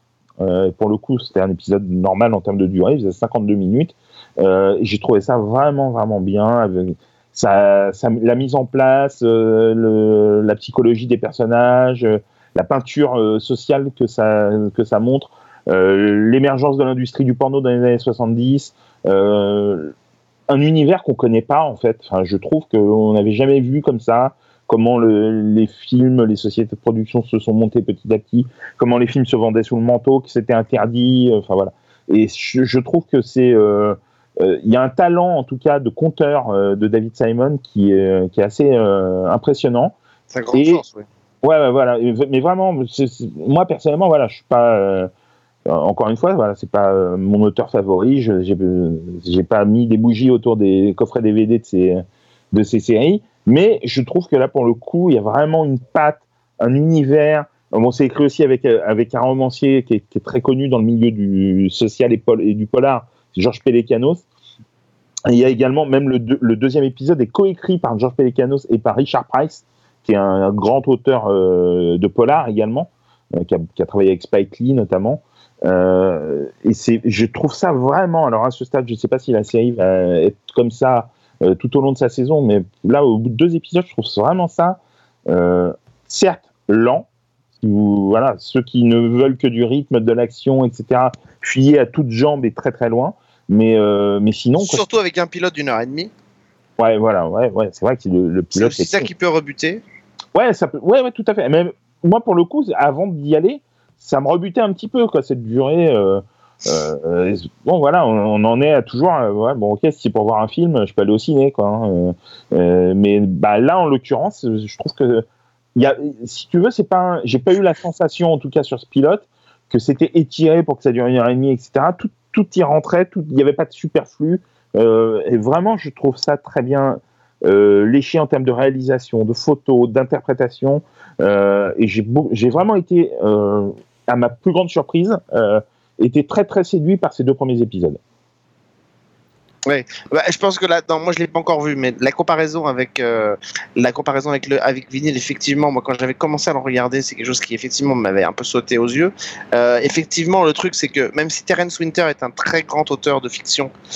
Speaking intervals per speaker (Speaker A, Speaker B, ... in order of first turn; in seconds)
Speaker A: 0.4-19.9, 20.5-40.0, 40.5-40.8, 41.4-45.1, 45.7-64.2, 65.3-87.1, 87.6-94.8, 96.8-99.1, 100.3-115.2, 115.8-138.0
Speaker B: 40.3-41.0, 94.6-96.1, 98.5-99.8, 139.7-153.7